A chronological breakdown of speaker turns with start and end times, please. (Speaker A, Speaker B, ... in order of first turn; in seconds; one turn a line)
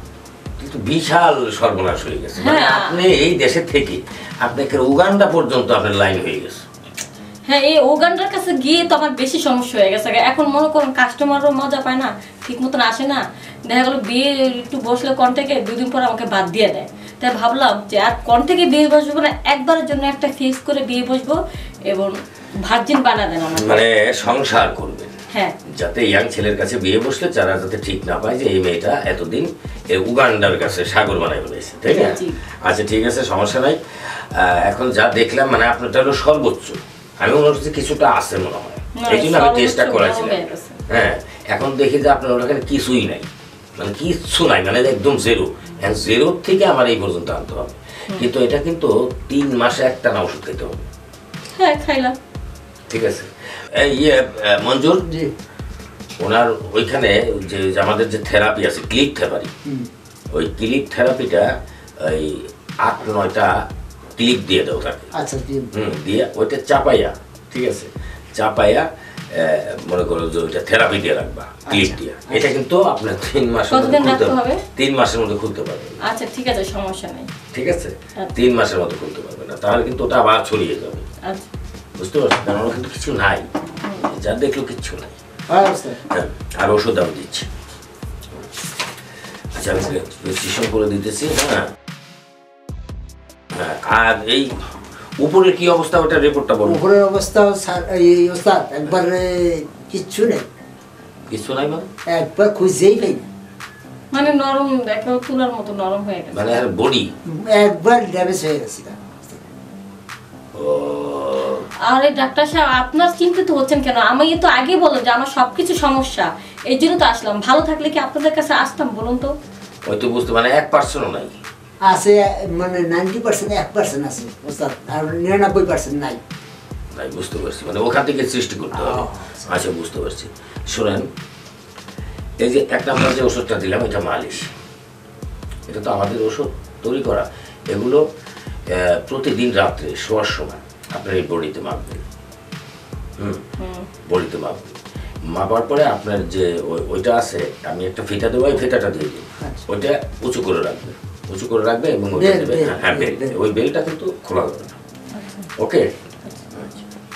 Speaker A: 0.6-6.6
Speaker B: 2.4-3.0
Speaker B: 7.5-21.4
Speaker B: 21.9-23.8
Speaker A: 23.5-25.1
Speaker B: 25.3-25.6
Speaker A: 25.7-33.8
Speaker B: 31.9-32.4
Speaker A: 34.3-50.8
Speaker B: 39.0-40.8
Speaker B: 51.6-52.1
Speaker A: 52.9-55.0
Speaker C: 55.1-55.3
Speaker A: 56.2-59.5
Speaker A: 60.3-63.6
Speaker A: 64.2-65.1
Speaker C: 65.1-65.7
Speaker A: 65.7-76.0
Speaker C: 71.7-72.5
Speaker B: 73.7-74.6
Speaker B: 76.0-77.3
Speaker A: 77.5-81.0
Speaker B: 81.2-81.5
Speaker A: 82.0-83.5
Speaker B: 83.8-84.1
Speaker A: 84.1-85.2
Speaker C: 85.5-86.0
Speaker A: 86.1-87.5
Speaker A: 89.5-91.7
Speaker A: 93.5-94.5
Speaker A: 95.2-96.8
Speaker C: 96.6-100.5
Speaker A: 101.3-101.9
Speaker C: 102.1-103.3
Speaker B: 104.1-106.6
Speaker A: 106.3-107.1
Speaker C: 107.3-109.4
Speaker A: 110.5-111.7
Speaker B: 111.8-119.3
Speaker A: 119.8-121.4
Speaker C: 121.8-126.2
Speaker A: 126.9-131.1
Speaker C: 128.7-129.6
Speaker A: 132.4-134.5
Speaker A: 135.7-138.0
Speaker A: 138.7-142.0
Speaker B: 143.6-143.9
Speaker A: 144.1-144.8
Speaker A: 145.3-154.8
Speaker C: 152.2-153.3
Speaker B: 155.2-155.5
Speaker A: 155.6-155.9
Speaker A: 156.5-156.8